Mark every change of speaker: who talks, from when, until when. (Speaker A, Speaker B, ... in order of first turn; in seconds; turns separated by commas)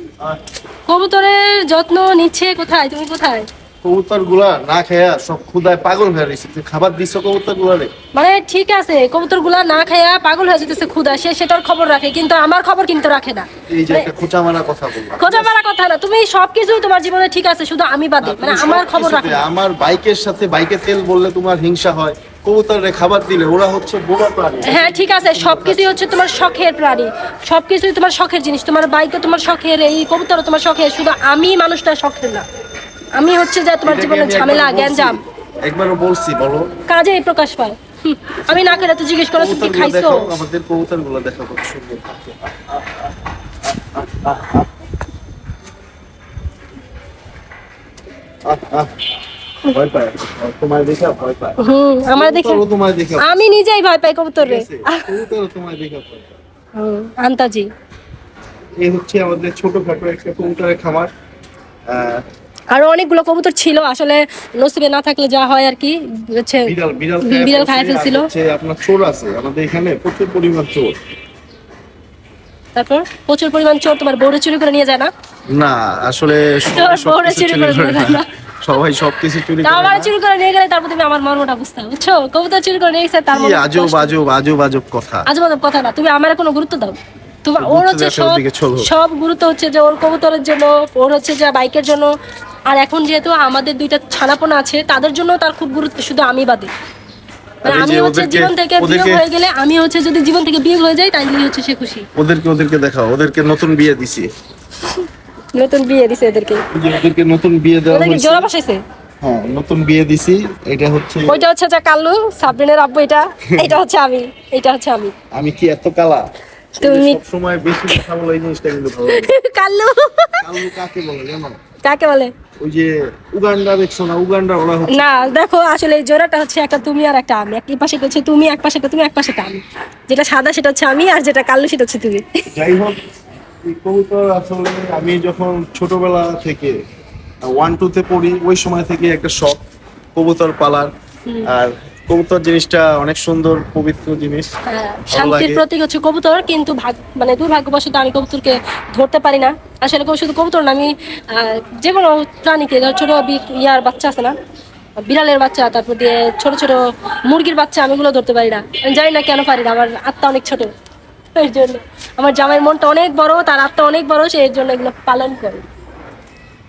Speaker A: 0.9-3.5, Speaker B: 3.8-7.9, Speaker A: 8.1-14.1, Speaker B: 13.7-15.5, Speaker A: 15.2-19.4, Speaker B: 18.2-26.0, Speaker A: 24.6-32.4, Speaker A: 33.1-35.2, Speaker B: 33.8-36.7, Speaker A: 36.9-40.3, Speaker B: 39.4-42.8, Speaker B: 43.6-44.7, Speaker B: 48.5-48.9, Speaker B: 49.7-51.6, Speaker A: 51.6-52.6, Speaker B: 52.1-53.5, Speaker A: 53.2-55.1, Speaker B: 54.4-56.3, Speaker A: 56.8-57.7, Speaker B: 58.8-61.1, Speaker B: 61.9-62.2, Speaker A: 62.7-68.3, Speaker B: 66.7-70.9, Speaker A: 72.7-75.1, Speaker B: 75.5-80.1, Speaker A: 76.7-78.3, Speaker A: 79.6-84.1, Speaker B: 83.3-85.3, Speaker A: 85.3-92.1, Speaker B: 87.6-88.9, Speaker A: 92.7-96.7, Speaker B: 97.6-99.2, Speaker A: 97.6-102.0, Speaker B: 102.2-104.3, Speaker A: 105.5-106.7, Speaker B: 106.7-108.5, Speaker A: 107.9-108.8, Speaker B: 109.2-111.4, Speaker A: 111.3-115.1, Speaker B: 115.3-119.3, Speaker A: 116.8-117.2, Speaker A: 119.1-120.6, Speaker B: 120.4-121.6, Speaker A: 121.8-122.3, Speaker B: 122.6-125.2, Speaker A: 124.9-132.3, Speaker B: 132.5-133.0, Speaker B: 133.6-136.8, Speaker B: 137.4-139.6, Speaker B: 140.1-140.9, Speaker B: 141.4-144.5, Speaker A: 144.7-154.3, Speaker B: 145.1-145.6, Speaker A: 155.0-160.7, Speaker A: 161.3-165.6